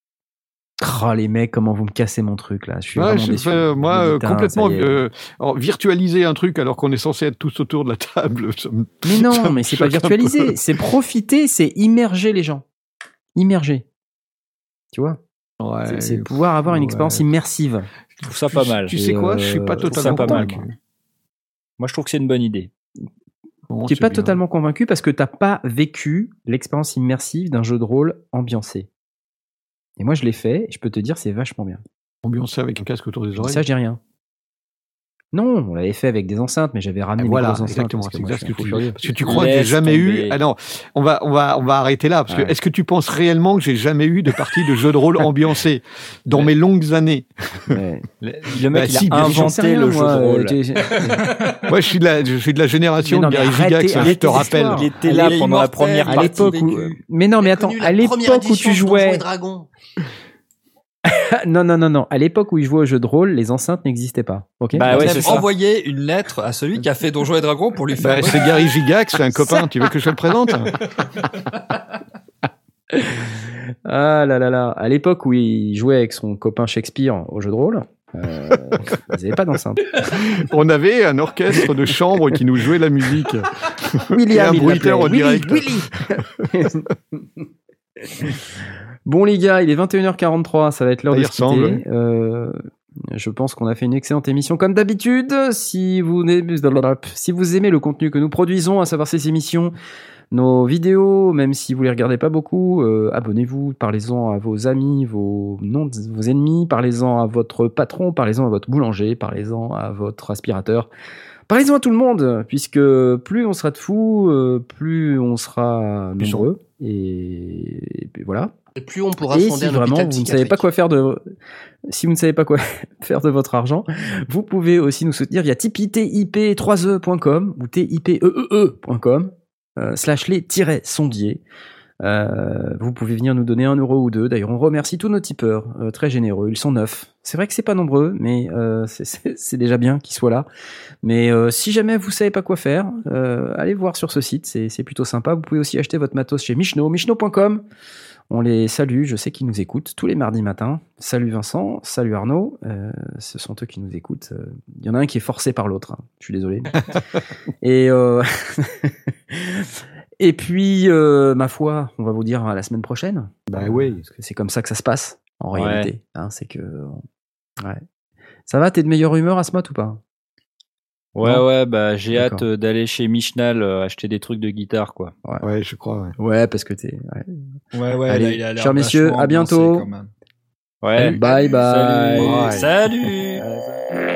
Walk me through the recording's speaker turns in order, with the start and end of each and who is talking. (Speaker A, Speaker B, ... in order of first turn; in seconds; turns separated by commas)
Speaker A: 0.8-5.0, Speaker B: 2.9-10.8, Speaker A: 9.0-12.6, Speaker A: 13.3-13.8, Speaker A: 14.9-15.2, Speaker B: 15.6-17.2, Speaker A: 15.8-17.9, Speaker B: 18.2-20.7, Speaker C: 18.2-18.9, Speaker A: 18.9-20.6, Speaker C: 19.9-20.6, Speaker C: 21.8-22.7, Speaker B: 23.7-24.4, Speaker A: 23.9-28.9, Speaker A: 30.0-31.8, Speaker B: 32.2-33.6, Speaker A: 33.4-34.0, Speaker A: 35.3-38.8, Speaker B: 37.2-47.8, Speaker C: 39.2-40.4, Speaker A: 47.7-48.0, Speaker C: 48.2-50.5, Speaker B: 48.7-49.5, Speaker A: 49.0-51.1, Speaker B: 51.7-54.9, Speaker A: 53.0-55.5, Speaker C: 54.0-56.7, Speaker D: 55.1-56.8, Speaker A: 56.0-59.2, Speaker E: 57.4-59.7, Speaker A: 61.1-65.4, Speaker C: 64.7-65.5, Speaker D: 64.9-68.7, Speaker B: 68.0-70.7, Speaker A: 72.9-80.3, Speaker B: 80.1-86.7, Speaker A: 84.1-87.4, Speaker A: 88.1-88.4, Speaker A: 89.0-92.6, Speaker B: 91.1-91.8, Speaker A: 93.1-99.7, Speaker A: 100.3-110.9, Speaker A: 111.5-118.5, Speaker B: 116.2-116.5, Speaker E: 118.8-120.7, Speaker A: 119.3-121.3, Speaker A: 121.9-131.4, Speaker A: 132.0-140.4, Speaker A: 141.0-147.6, Speaker A: 148.3-156.8, Speaker A: 157.6-167.0, Speaker B: 163.5-164.0, Speaker C: 165.5-165.9, Speaker A: 168.5-170.0, Speaker C: 171.1-175.1, Speaker A: 172.1-172.4, Speaker B: 175.4-176.1, Speaker A: 176.2-177.5, Speaker D: 177.7-180.1, Speaker A: 178.1-179.8, Speaker C: 180.8-182.5, Speaker A: 180.9-182.6, Speaker B: 182.2-182.7, Speaker D: 182.4-183.4, Speaker A: 183.3-183.8